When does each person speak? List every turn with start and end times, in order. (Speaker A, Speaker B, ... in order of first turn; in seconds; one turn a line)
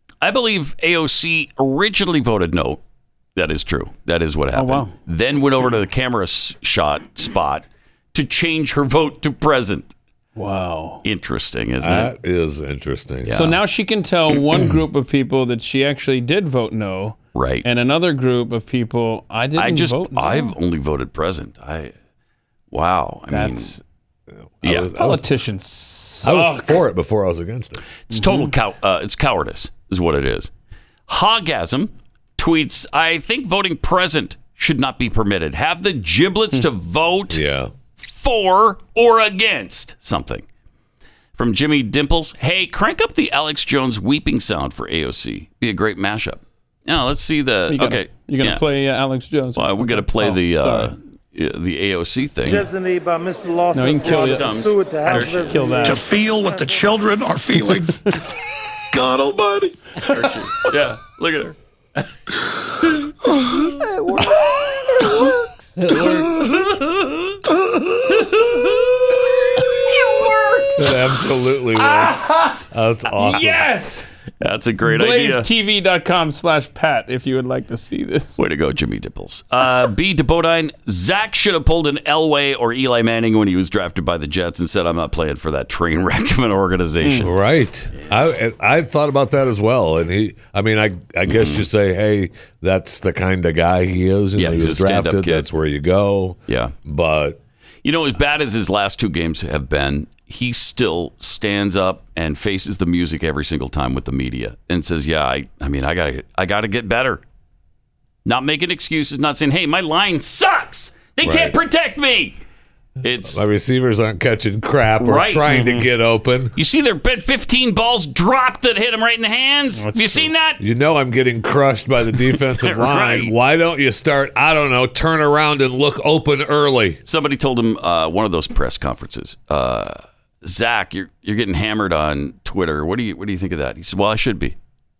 Speaker A: 0.2-2.8
Speaker A: 3.4-9.9
Speaker B: 4.5-4.9
Speaker B: 10.4-11.0
Speaker A: 11.0-12.1
Speaker C: 11.8-13.5
Speaker A: 13.3-13.6
Speaker B: 13.3-20.5
Speaker A: 17.3-17.6
Speaker A: 19.6-21.9
Speaker A: 22.7-23.7
Speaker B: 23.3-23.8
Speaker C: 24.3-25.2
Speaker A: 24.6-24.9
Speaker B: 25.0-26.7
Speaker C: 26.2-27.8
Speaker A: 28.1-30.5
Speaker B: 28.1-28.5
Speaker A: 31.1-37.4
Speaker C: 37.3-37.7
Speaker A: 38.0-40.5
Speaker A: 41.4-48.6
Speaker B: 47.7-50.9
Speaker A: 49.6-52.7
Speaker D: 52.5-56.8
Speaker B: 53.7-54.5
Speaker A: 54.0-55.7
Speaker B: 55.3-56.0
Speaker E: 55.8-58.1
Speaker B: 57.9-58.1
Speaker E: 58.9-59.8
Speaker A: 60.1-62.1
Speaker B: 63.6-65.3
Speaker C: 65.8-66.5
Speaker A: 66.1-67.4
Speaker A: 68.1-70.3
Speaker B: 70.3-70.6
Speaker C: 70.8-73.7
Speaker B: 71.8-72.6
Speaker B: 73.2-74.0
Speaker A: 74.4-75.5
Speaker B: 74.9-78.4
Speaker A: 78.4-87.3
Speaker C: 87.2-97.4
Speaker A: 91.3-91.7
Speaker A: 94.4-95.5
Speaker A: 96.5-96.8
Speaker A: 97.8-107.2
Speaker A: 108.2-112.4
Speaker C: 111.2-111.6
Speaker A: 113.0-113.4
Speaker C: 113.2-116.5
Speaker A: 115.0-115.5
Speaker B: 115.5-115.9
Speaker A: 116.6-120.6
Speaker B: 119.8-120.3
Speaker C: 120.6-127.0
Speaker A: 122.5-123.3
Speaker A: 127.1-134.6